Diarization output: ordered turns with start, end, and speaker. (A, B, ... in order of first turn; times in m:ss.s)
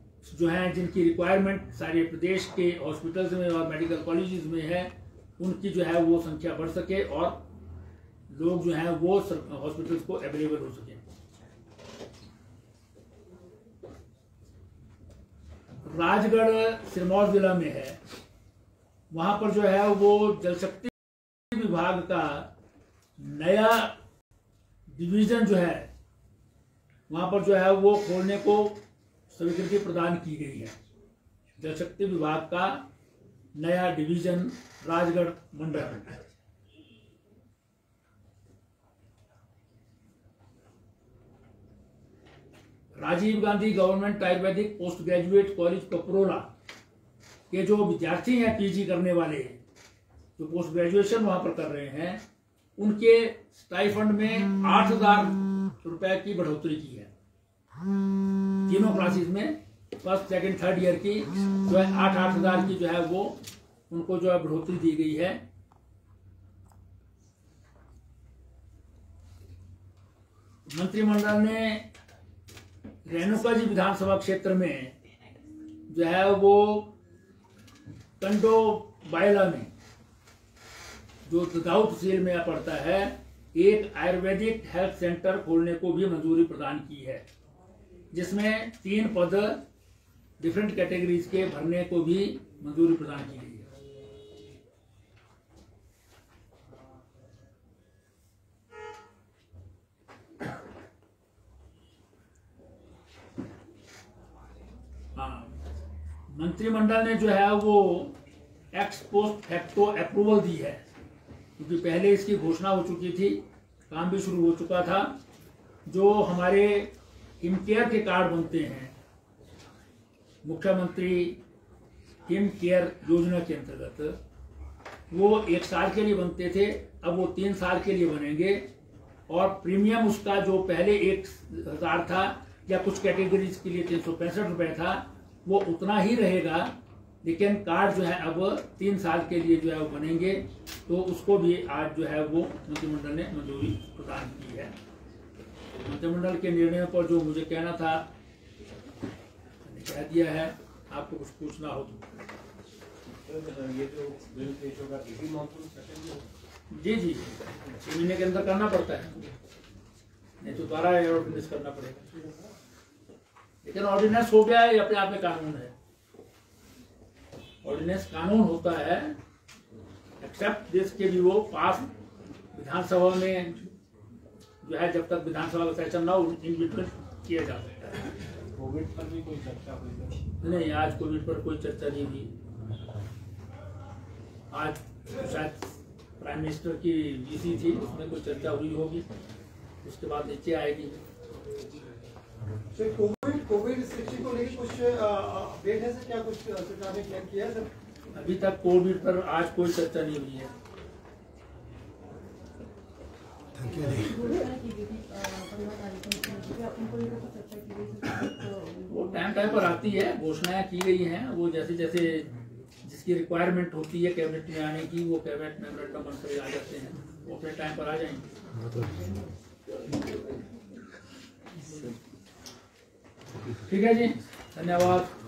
0:00.2-0:07.4 A
0:08.3-0:11.0 A
0:15.8-0:18.0 A
0:19.1-0:22.5 A
0:23.2-0:24.0 A
0:24.9-0:25.9 A
0:27.1-0:30.8 A
0:31.6-0:32.8 A
0:33.5-0:36.2 A
0:42.9-0:46.5 A
0:47.5-0:49.6 A
0:50.4-0:52.2 A
0:52.8-0:57.1 A
0:58.7-1:05.4 A
1:10.7-1:11.9 A
1:13.0-1:15.0 A
1:15.9-1:16.9 A
1:18.2-1:19.7 A
1:21.2-1:27.2 A
1:28.1-1:29.6 A
1:30.4-1:33.7 A
1:45.2-1:45.6 A
1:46.3-1:48.2 A
1:48.7-1:50.8 A
1:51.6-1:55.2 A
1:55.8-1:58.9 A
2:00.4-2:01.4 A
2:02.2-2:04.2 A
2:05.1-2:08.6 A
2:09.3-2:24.8 A
2:25.8-2:28.1 A
2:29.6-2:32.0 A
2:33.3-2:36.2 B
2:36.7-2:39.2 A
2:40.4-2:42.2 A
2:43.6-2:45.7 A
2:47.6-2:49.2 A
2:50.2-2:51.9 A
2:52.5-2:53.6 A
2:54.6-2:58.0 A
2:58.5-3:00.3 B
3:00.4-3:02.3 A
3:04.5-3:09.0 A
3:09.8-3:11.0 A
3:12.7-3:17.7 C
3:18.1-3:20.5 A
3:23.7-3:28.9 D
3:28.8-3:32.3 A
3:32.8-3:38.3 A
3:43.6-3:45.1 A